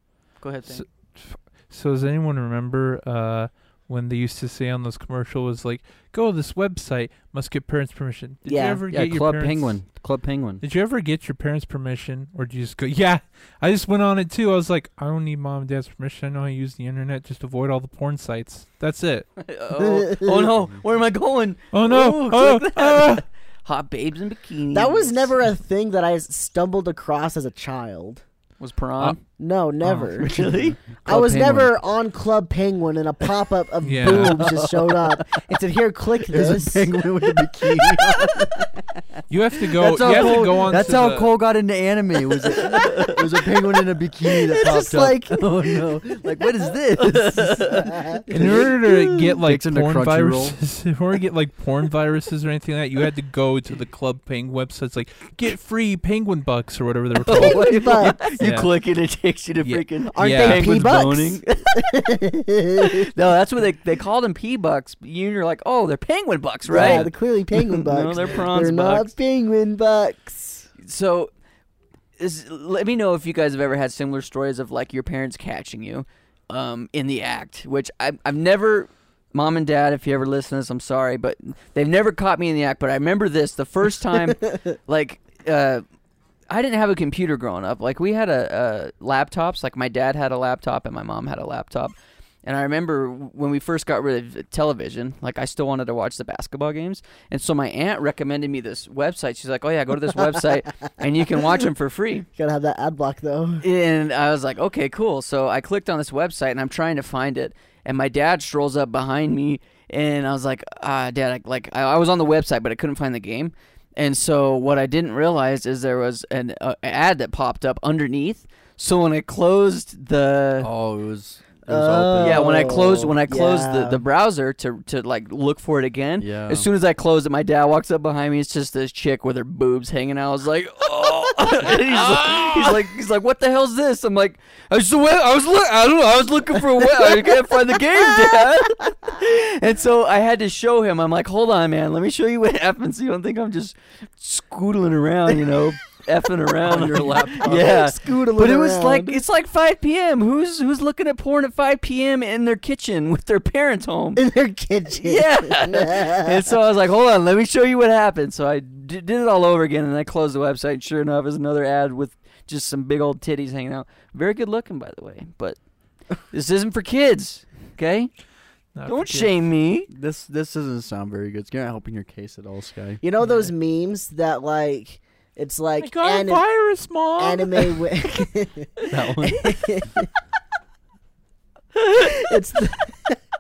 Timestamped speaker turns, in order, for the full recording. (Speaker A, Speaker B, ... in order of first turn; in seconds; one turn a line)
Speaker A: 0.4-0.8
Speaker B: 0.7-9.8
Speaker C: 8.4-8.8
Speaker D: 8.9-10.6
Speaker B: 10.6-19.3
Speaker A: 19.4-25.3
Speaker C: 19.8-20.5
Speaker B: 21.7-23.2
Speaker C: 24.7-28.2
Speaker A: 28.6-29.2
Speaker C: 29.4-36.9
Speaker B: 29.8-30.2
Speaker A: 30.1-30.8
Speaker D: 31.1-31.8
Speaker B: 33.8-34.4
Speaker D: 34.4-35.1
Speaker D: 36.3-38.7
Speaker B: 39.3-41.3
Speaker D: 39.7-50.6
Speaker A: 42.5-43.2
Speaker C: 44.2-46.7
Speaker A: 47.1-47.9
Speaker C: 47.7-48.6
Speaker B: 48.3-58.7
Speaker A: 57.2-62.1
Speaker C: 57.3-58.2
Speaker B: 59.6-60.7
Speaker C: 60.1-63.1
Speaker A: 62.8-69.1
Speaker C: 66.7-70.7
Speaker B: 66.8-67.0
Speaker A: 70.8-71.3
Speaker A: 72.2-85.8
Speaker A: 86.5-102.3
Speaker C: 102.3-103.6
Speaker A: 103.6-120.7
Speaker D: 120.6-123.0
Speaker C: 121.7-124.0
Speaker A: 122.2-154.2
Speaker D: 126.2-126.7
Speaker D: 146.6-147.8
Speaker C: 147.4-149.2
Speaker C: 154.2-156.5
Speaker A: 154.9-165.6
Speaker A: 166.3-168.1
Speaker B: 168.7-169.3
Speaker A: 168.8-169.9
Speaker D: 169.9-173.0
Speaker C: 173.0-176.4
Speaker B: 175.8-177.8
Speaker C: 177.2-180.1
Speaker D: 178.9-179.6
Speaker C: 181.9-183.2